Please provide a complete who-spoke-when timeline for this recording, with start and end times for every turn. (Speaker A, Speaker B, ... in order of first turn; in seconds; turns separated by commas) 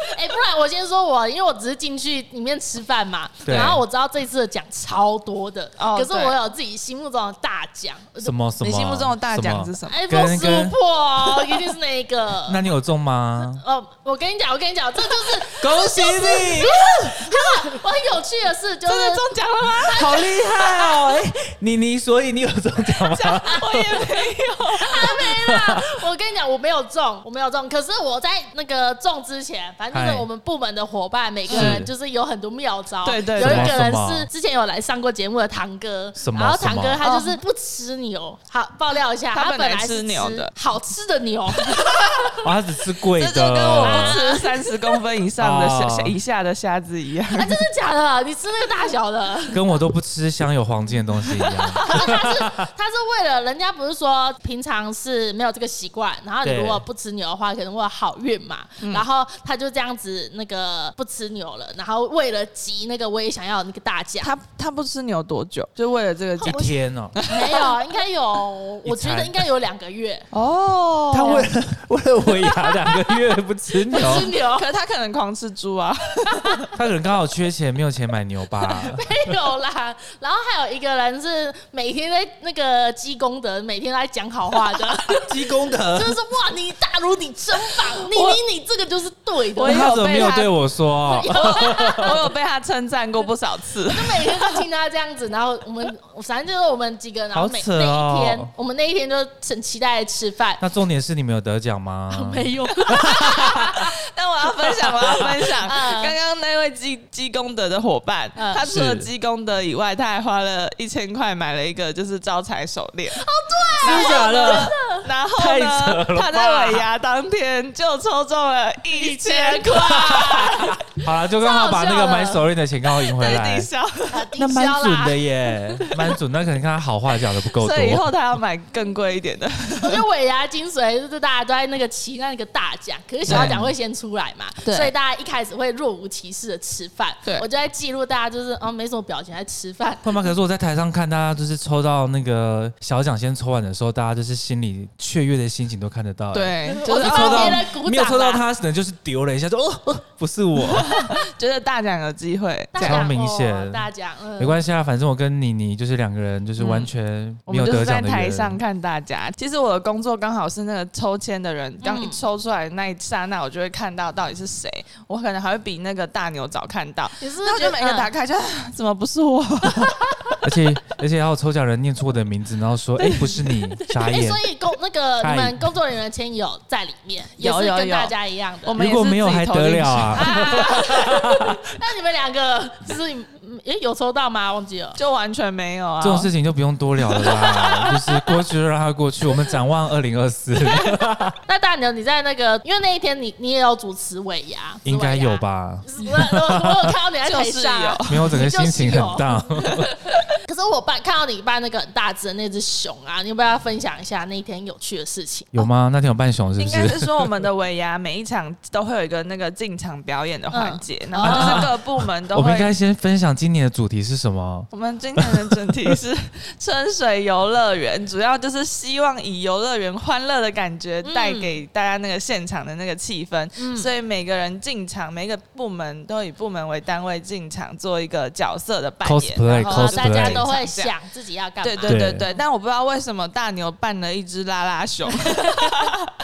Speaker A: 0.1-8.3, Speaker B: 3.5-3.8, Speaker C: 5.8-6.4, Speaker B: 8.2-11.7, Speaker C: 8.6-10.0, Speaker A: 9.9-12.7, Speaker B: 12.5-13.6, Speaker A: 13.4-19.2, Speaker B: 15.6-17.4, Speaker C: 18.9-20.2, Speaker A: 19.9-21.0, Speaker B: 19.9-24.1, Speaker A: 23.2-23.6, Speaker C: 23.5-25.2, Speaker A: 24.7-42.3, Speaker B: 25.2-25.9, Speaker B: 29.9-30.3, Speaker B: 31.5-31.9, Speaker C: 31.5-31.8, Speaker C: 33.0-33.8, Speaker B: 33.4-34.3, Speaker B: 36.2-37.0, Speaker C: 37.0-37.4, Speaker C: 39.3-40.5, Speaker B: 42.4-44.2, Speaker C: 43.2-47.5, Speaker A: 43.7-44.7, Speaker B: 45.4-46.1, Speaker A: 47.3-49.6, Speaker B: 49.5-52.7, Speaker A: 51.6-64.4, Speaker B: 56.4-56.8, Speaker C: 58.8-59.1, Speaker C: 64.2-67.7, Speaker A: 66.4-66.7, Speaker B: 66.5-67.2, Speaker A: 67.3-70.3, Speaker B: 68.8-69.5, Speaker C: 70.3-71.5, Speaker B: 71.1-74.3, Speaker A: 71.2-71.5, Speaker A: 72.4-73.1, Speaker A: 73.9-74.7, Speaker C: 74.1-76.7, Speaker B: 76.7-79.1, Speaker A: 78.6-85.3, Speaker B: 85.2-86.2, Speaker A: 85.9-89.9, Speaker C: 88.1-88.4, Speaker C: 89.6-90.6, Speaker B: 89.6-92.2, Speaker A: 91.0-92.2, Speaker C: 91.3-94.6, Speaker A: 93.9-100.6, Speaker B: 97.3-98.5, Speaker B: 100.6-103.5, Speaker A: 102.1-103.9, Speaker C: 103.7-113.2, Speaker A: 105.6-106.2, Speaker A: 108.4-108.7, Speaker B: 108.6-109.1, Speaker A: 113.2-115.1, Speaker C: 113.8-120.2, Speaker B: 113.8-114.7, Speaker B: 115.4-116.8, Speaker A: 118.9-122.4, Speaker B: 119.8-123.7, Speaker C: 123.0-124.2, Speaker A: 124.1-125.2, Speaker B: 124.4-128.1, Speaker C: 127.5-130.0, Speaker A: 129.8-140.3, Speaker B: 133.3-133.8, Speaker C: 133.3-133.6, Speaker C: 134.7-134.9, Speaker B: 140.0-151.0, Speaker C: 146.3-147.6, Speaker A: 146.8-148.4, Speaker C: 150.8-153.1, Speaker A: 152.7-154.7, Speaker B: 152.8-153.9, Speaker B: 154.4-158.6, Speaker C: 156.6-156.9, Speaker C: 157.5-170.1, Speaker A: 161.8-162.2, Speaker A: 167.2-168.1, Speaker B: 170.4-174.4, Speaker C: 173.0-173.8, Speaker A: 174.0-178.8, Speaker B: 175.2-175.7, Speaker C: 177.4-180.6, Speaker B: 178.8-181.4, Speaker A: 180.1-185.0, Speaker C: 185.0-186.3, Speaker B: 186.0-191.3, Speaker C: 187.2-187.6, Speaker A: 187.4-188.3, Speaker A: 191.4-199.8, Speaker B: 194.8-196.9, Speaker C: 197.2-198.4, Speaker B: 198.1-199.9, Speaker A: 200.4-205.7, Speaker B: 205.5-207.2, Speaker C: 206.6-212.7, Speaker A: 210.5-211.7, Speaker B: 211.2-215.7, Speaker C: 214.7-230.9, Speaker A: 221.0-221.6, Speaker A: 223.6-223.9, Speaker B: 229.0-230.5, Speaker A: 229.7-232.4, Speaker C: 231.6-236.0, Speaker B: 231.8-232.3, Speaker A: 235.4-235.7